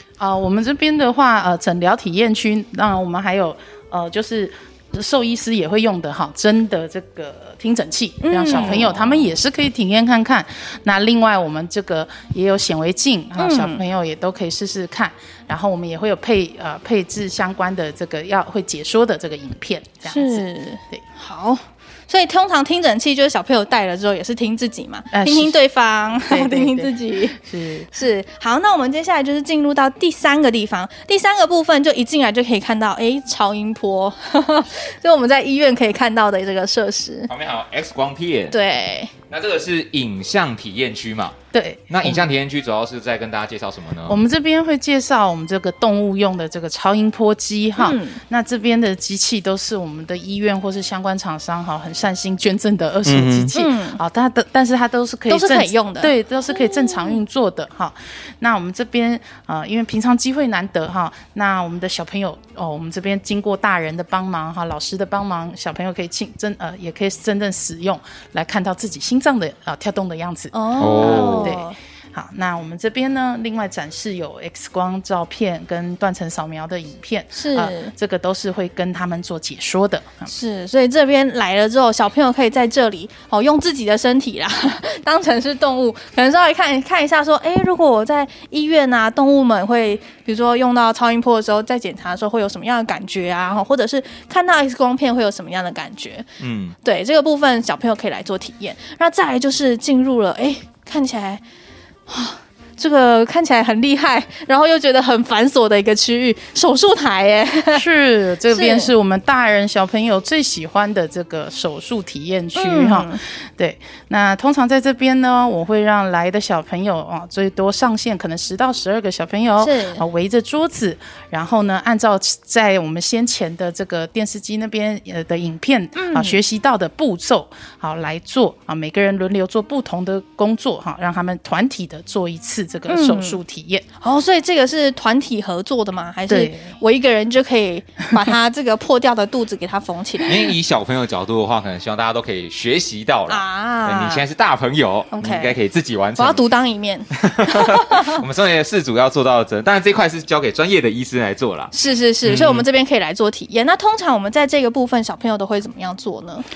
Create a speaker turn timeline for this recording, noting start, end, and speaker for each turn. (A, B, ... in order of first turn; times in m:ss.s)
0:00.2-0:21.0 A
0:08.2-0:08.8 B
0:08.5-0:09.4 C
0:13.4-0:13.8 B
0:20.0-0:27.4 B
0:25.1-0:25.6 A
0:26.2-0:27.9 A
0:27.9-0:37.3 B
0:37.3-0:38.6 C
0:38.5-0:39.1 B
0:39.3-0:41.4 C
0:41.5-0:42.3 A
0:41.9-0:44.2 C
0:44.0-1:20.3 A
0:47.8-0:48.2 B
0:53.0-0:53.5 C
0:53.5-0:54.0 B
0:55.3-0:57.1 B
1:10.5-1:11.8 B
1:10.8-1:11.6 C
1:17.3-1:17.9 B
1:20.3-1:36.3 B
1:36.4-1:36.8 C
1:36.8-1:41.4 B
1:42.1-1:47.8 B
1:47.7-2:13.8 A
1:48.5-1:48.9 B
1:52.6-1:53.2 B
1:59.6-2:00.0 B
2:06.0-2:06.4 B
2:12.9-2:13.4 B
2:14.0-2:20.4 B
2:16.3-2:16.7 A
2:20.2-2:26.4 C
2:23.3-2:24.2 B
2:25.1-2:25.6 B
2:26.2-2:28.2 B
2:27.1-2:31.7 C
2:31.7-2:36.4 B
2:32.2-2:32.6 C